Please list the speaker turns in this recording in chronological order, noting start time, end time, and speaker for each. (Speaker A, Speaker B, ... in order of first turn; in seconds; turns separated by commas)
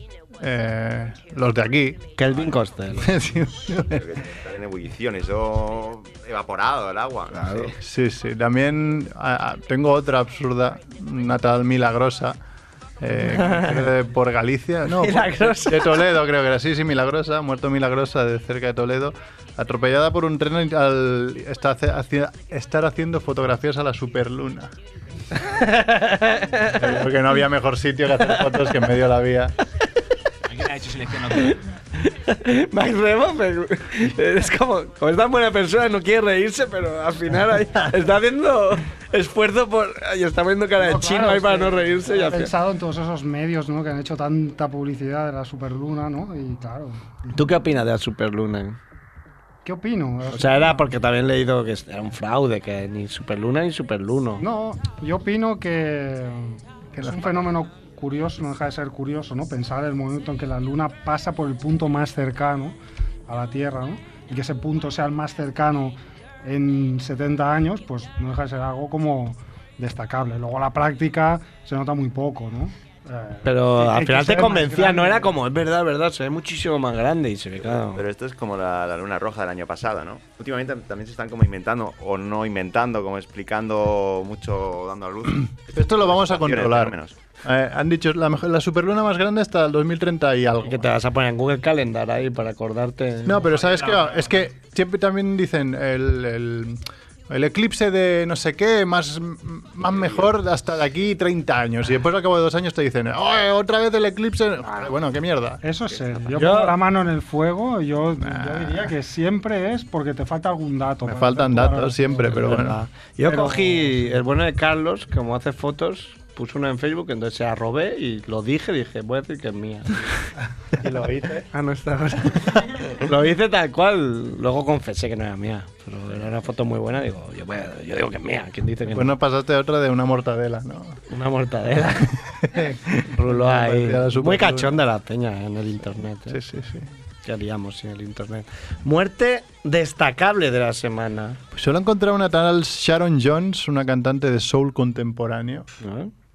Speaker A: 0.4-2.1, Speaker B: 2.2-3.1, Speaker A: 2.9-4.0, Speaker C: 3.9-7.7, Speaker B: 7.3-7.7, Speaker A: 7.8-12.4, Speaker A: 13.0-24.7, Speaker B: 13.2-13.8, Speaker B: 14.9-16.0, Speaker B: 25.4-26.8, Speaker A: 26.7-29.5, Speaker D: 30.5-31.6, Speaker B: 32.0-42.5, Speaker E: 40.8-47.3, Speaker B: 47.3-48.8, Speaker E: 49.6-51.0, Speaker B: 50.3-54.4, Speaker E: 54.4-75.3, Speaker A: 56.9-57.5, Speaker B: 73.4-78.0, Speaker C: 77.8-87.1, Speaker A: 85.7-90.9, Speaker B: 90.6-93.5, Speaker A: 93.2-105.6, Speaker D: 93.5-94.3, Speaker E: 105.6-112.6, Speaker B: 106.3-106.8, Speaker A: 108.2-108.9, Speaker A: 111.0-112.8, Speaker B: 112.3-120.1, Speaker E: 113.2-114.1, Speaker B: 120.8-129.2, Speaker A: 128.9-131.0, Speaker B: 131.1-132.2, Speaker A: 132.4-134.8, Speaker B: 133.0-136.4, Speaker A: 136.3-136.9, Speaker B: 137.2-141.4, Speaker A: 141.5-145.7, Speaker B: 145.8-146.1